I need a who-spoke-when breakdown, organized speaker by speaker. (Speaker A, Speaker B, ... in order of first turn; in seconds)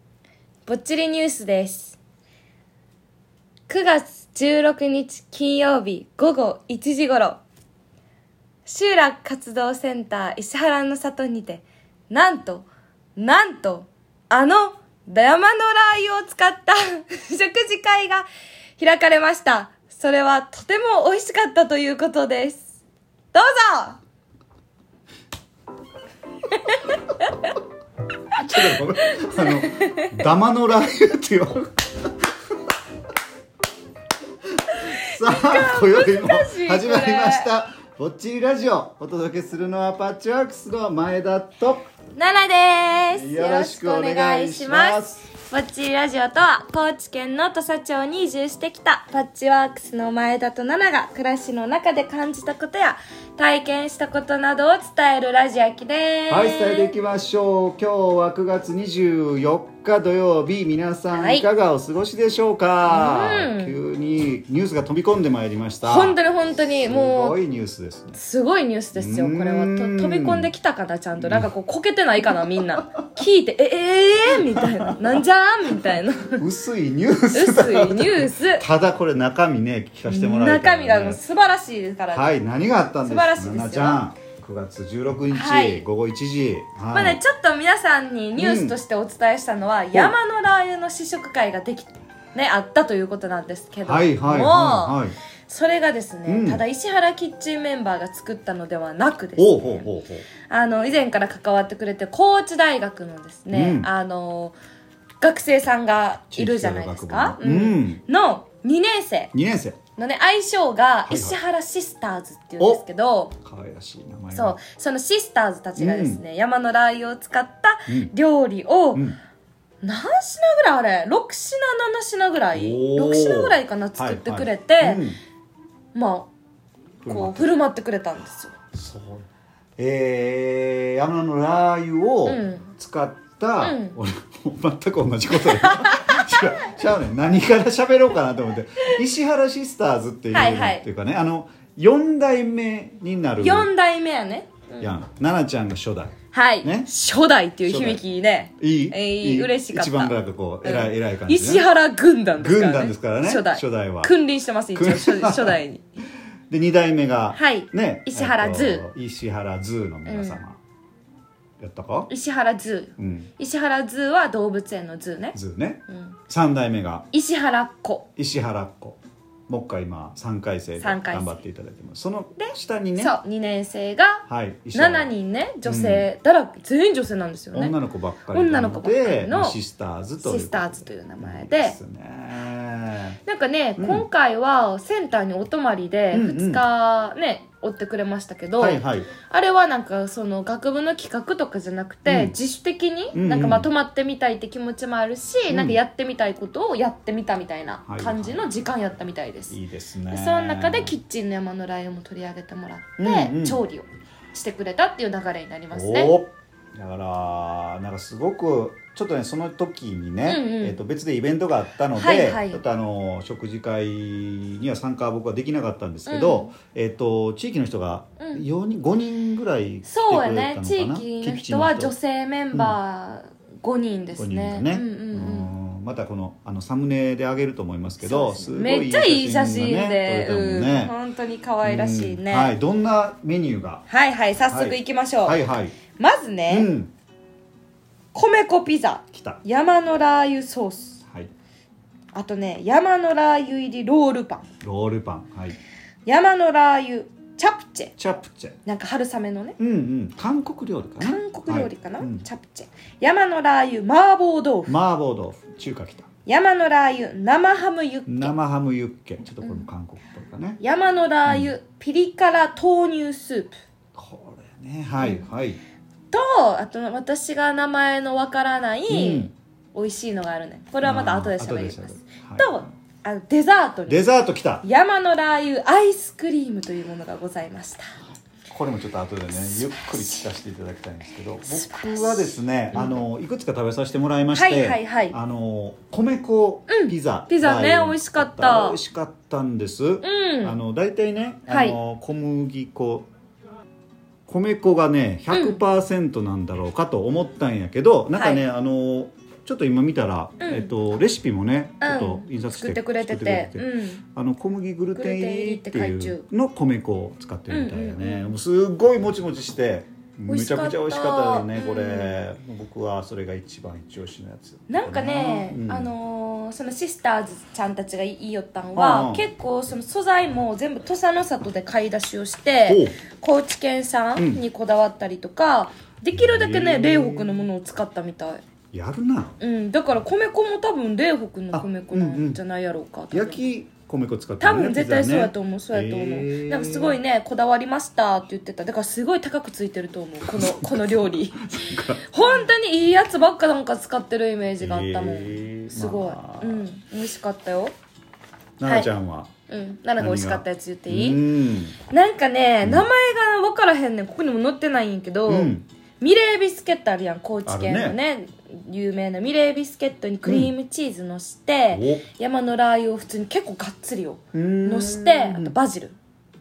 Speaker A: 0.7-2.0, 3.7-7.4, 8.7-18.3, 18.8-22.7, 23.3-24.0, 26.5-27.5, 28.6-30.1, 34.8-37.5, 42.1-56.9, 61.1-61.5, 62.9-63.8, 65.8-67.4, 68.2-76.4, 77.3-78.7, 80.1-82.4, 83.0-84.0, 85.3-85.8, 86.9-99.9, 100.5-104.6, 105.2-109.3, 110.0-113.4, 114.3-119.1, 119.8-125.1, 125.9-126.3, 127.1-128.5, 132.3-132.7, 133.6-134.0, 135.3-136.7, 140.3-140.8, 143.4-145.0, 146.3-155.8, 157.3-158.9, 160.1-160.4, 162.1-165.4, 165.9-166.2, 167.1-168.1, 170.8-171.4, 173.0-177.8, 178.3-179.6, 180.2-181.8, 183.2-199.6, 200.1-206.2, 210.2-210.8, 211.9-212.6, 216.1-216.5, 218.2-218.4, 219.9-225.5, 228.0-232.5, 233.9-235.4, 235.9-236.7, 238.1-241.0, 242.1-244.5, 246.1-247.9, 248.7-249.6, 251.0-254.8, 256.3-258.3, 260.6-263.6, 265.0-265.3, 266.1-274.1, 274.6-277.9, 279.3-280.3, 281.4-283.0, 284.3-285.2, 286.7-288.8, 290.0-290.6, 291.5-291.8, 295.3-295.6, 298.1-298.4, 300.4-300.7, 301.8-304.0, 304.9-306.2, 307.5-308.4, 310.3-312.2, 314.7-328.4, 329.4-333.4, 334.4-347.7, 348.6-348.9, 349.5-351.3, 351.9-366.0
Speaker B: 28.4-32.1, 34.7-41.9, 43.1-45.2, 56.3-66.2, 66.8-68.2, 69.0-70.5, 71.2-71.5, 74.5-75.0, 76.4-81.2, 82.1-87.2, 88.4-88.8, 93.8-95.2, 96.3-96.6, 99.4-100.3, 103.5-103.9, 106.3-108.0, 109.3-109.8, 111.1-111.4, 113.4-114.6, 115.8-116.2, 117.9-118.1, 122.5-125.2, 127.0-127.5, 128.7-143.7, 144.8-146.9, 147.7-148.0, 148.6-151.7, 152.4-154.2, 154.8-155.6, 156.5-160.6, 161.6-162.1, 163.0-163.3, 165.3-167.1, 168.2-173.2, 174.3-175.1, 175.7-176.1, 177.5-183.2, 183.8-184.1, 186.1-186.6, 188.6-189.1, 192.1-192.4, 193.1-193.7, 195.5-195.8, 197.9-198.4, 199.5-201.0, 203.0-203.6, 205.7-221.9, 224.2-230.9, 231.6-233.8, 234.5-235.8, 236.5-236.9, 239.1-239.4, 244.6-245.6, 248.0-248.6, 249.6-252.3, 254.7-256.1, 258.1-260.6, 261.3-261.5, 263.9-265.6, 268.9-269.3, 270.8-272.6, 273.9-274.6, 278.5-293.1, 294.3-315.9, 318.8-319.2, 322.7-323.0, 324.2-324.4, 326.1-327.5, 328.7-329.4, 331.5-332.4, 333.1-337.0, 340.3-340.8, 341.5-342.5, 344.6-346.7, 348.6-349.3, 350.0-351.8, 352.6-352.9, 355.3-355.7, 357.5-358.0, 360.2-360.5, 361.7-362.1, 364.3-365.6